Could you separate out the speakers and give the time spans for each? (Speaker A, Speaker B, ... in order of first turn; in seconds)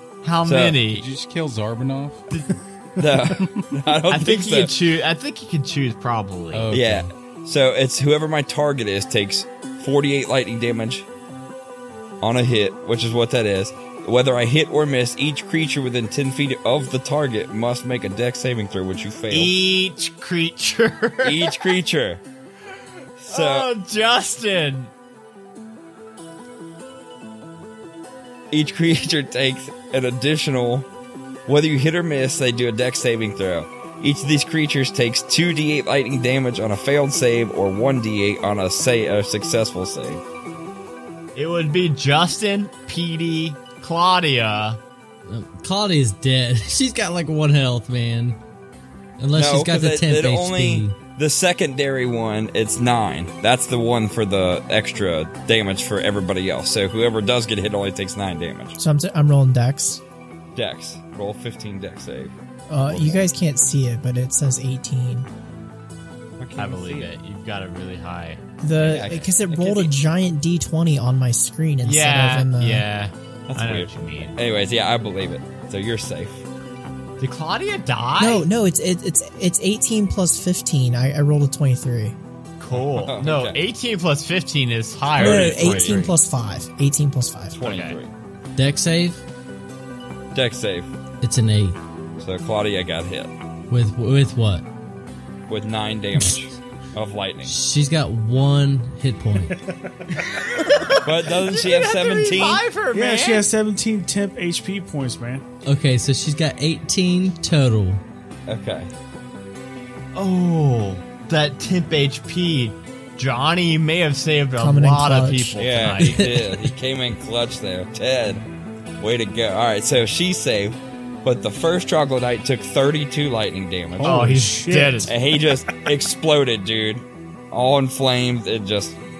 Speaker A: 0.2-1.1, 4.1-6.7, 19.3-21.6, 23.3-24.9, 41.4-44.8, 66.6-68.4, 71.8-74.4, 77.2-78.5, 82.6-86.1, 87.6-88.0, 100.2-103.5, 110.1-116.2, 124.0-125.1
Speaker B: 0.4-0.8, 3.0-4.7, 6.7-11.1, 12.2-19.5, 21.2-22.2, 23.2-23.7, 28.5-30.9, 31.5-40.2, 49.4-58.8, 60.6-63.3, 66.4-67.1, 68.8-69.9, 73.5-76.4, 82.7-83.6, 85.2-86.0, 87.5-88.1, 90.3-90.9, 92.2-93.3, 95.5-97.6, 101.0-102.6, 108.5-108.9, 115.6-118.4, 119.0-124.2, 125.1-129.0
Speaker C: 0.9-2.3, 6.5-7.1
Speaker D: 45.3-48.4, 49.2-51.0, 88.6-89.2, 91.2-91.8, 93.7-94.7, 97.4-99.6, 105.7-108.0, 116.0-116.6
Speaker E: 58.8-60.0, 62.7-65.3, 68.6-72.9, 78.2-82.2, 85.2-87.6, 114.6-115.6
Speaker F: 99.5-100.2, 102.9-105.4, 124.0-125.2